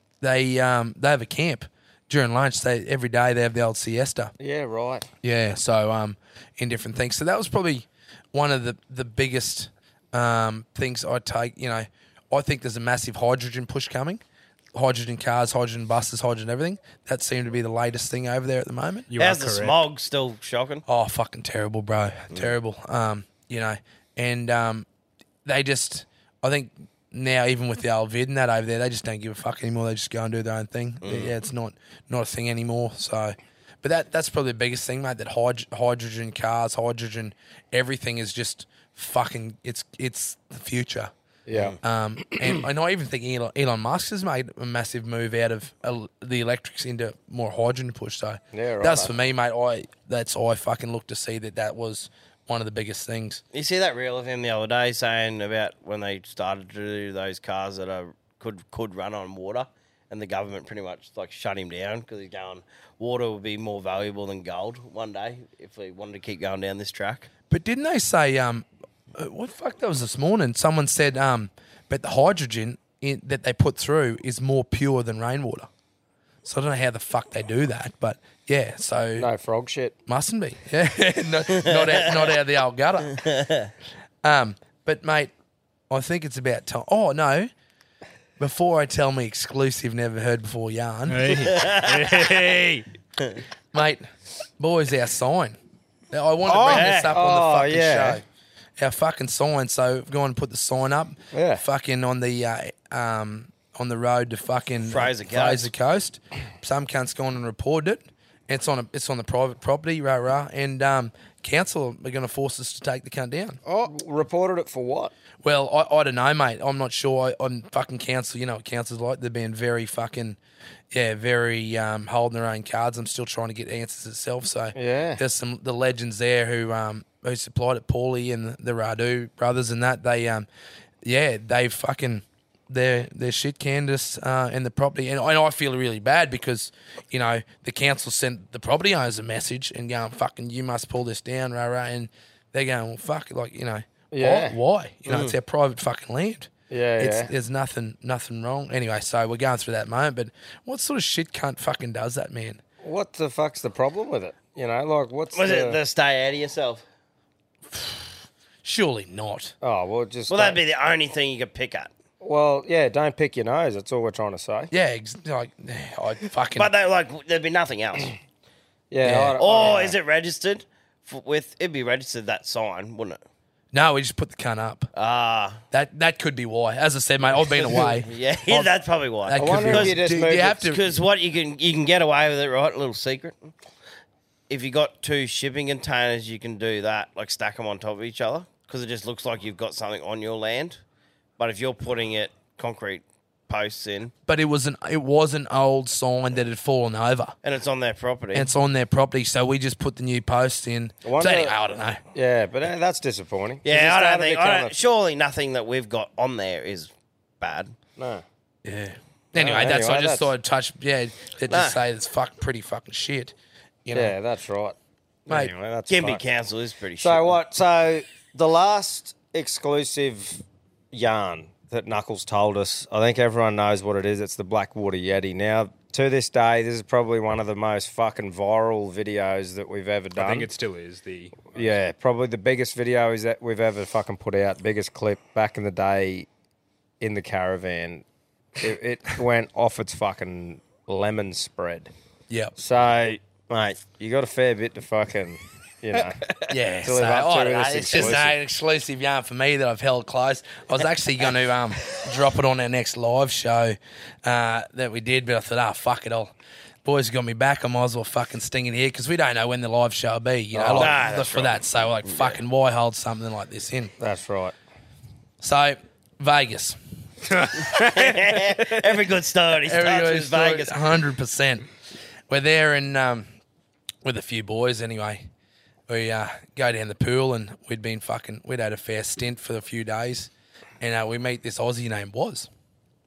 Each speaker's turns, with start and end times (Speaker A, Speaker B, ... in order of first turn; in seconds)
Speaker A: 0.2-4.3, 5.2-14.2, 14.7-19.1, 20.9-24.9, 25.4-41.1, 41.8-53.4, 67.5-75.7, 76.4-79.3, 80.1-83.2, 84.2-85.3, 85.9-87.5, 88.4-91.4, 93.7-94.1, 94.6-95.6, 96.1-98.2, 98.8-113.6, 115.4-120.4, 120.9-130.5, 131.0-152.6, 157.7-158.1, 158.6-159.5, 164.7-166.7, 169.0-169.7, 173.7-174.9, 175.7-181.0, 194.2-197.3, 198.3-202.0, 208.6-213.3, 213.8-214.2, 215.3-215.5, 246.5-256.3, 256.8-263.9, 265.4-266.8, 269.6-271.6, 272.3-273.2, 274.0-275.2, 275.9-282.5
Speaker B: 4.4-5.1, 41.5-42.6, 48.5-49.1, 79.2-79.9, 96.5-98.2, 101.3-101.6, 113.7-115.1, 124.7-125.2, 144.1-144.6, 146.7-147.3, 152.8-155.8, 159.6-160.6, 162.2-164.7, 168.9-169.9, 179.4-180.6, 201.0-201.5, 202.1-204.7, 208.0-208.2, 209.3-210.3, 213.9-216.2, 217.0-230.5, 231.5-236.3, 237.0-238.0, 238.6-241.9, 242.6-248.3, 260.5-260.9, 264.0-264.5
Speaker C: 19.1-19.8, 91.1-92.8, 230.1-231.8
Speaker D: 19.1-20.8, 31.0-31.3, 53.5-67.3, 81.6-82.2, 83.2-83.7, 91.4-92.3, 96.6-97.1, 104.8-105.7, 145.1-145.3, 155.3-156.8, 160.3-161.9, 166.6-168.1, 169.4-173.2, 174.9-175.6, 177.3-180.0, 180.6-183.5, 184.5-190.8, 191.4-194.1, 197.4-198.5, 203.6-207.7, 211.5-211.8, 215.9-217.3, 260.7-262.4, 267.6-270.8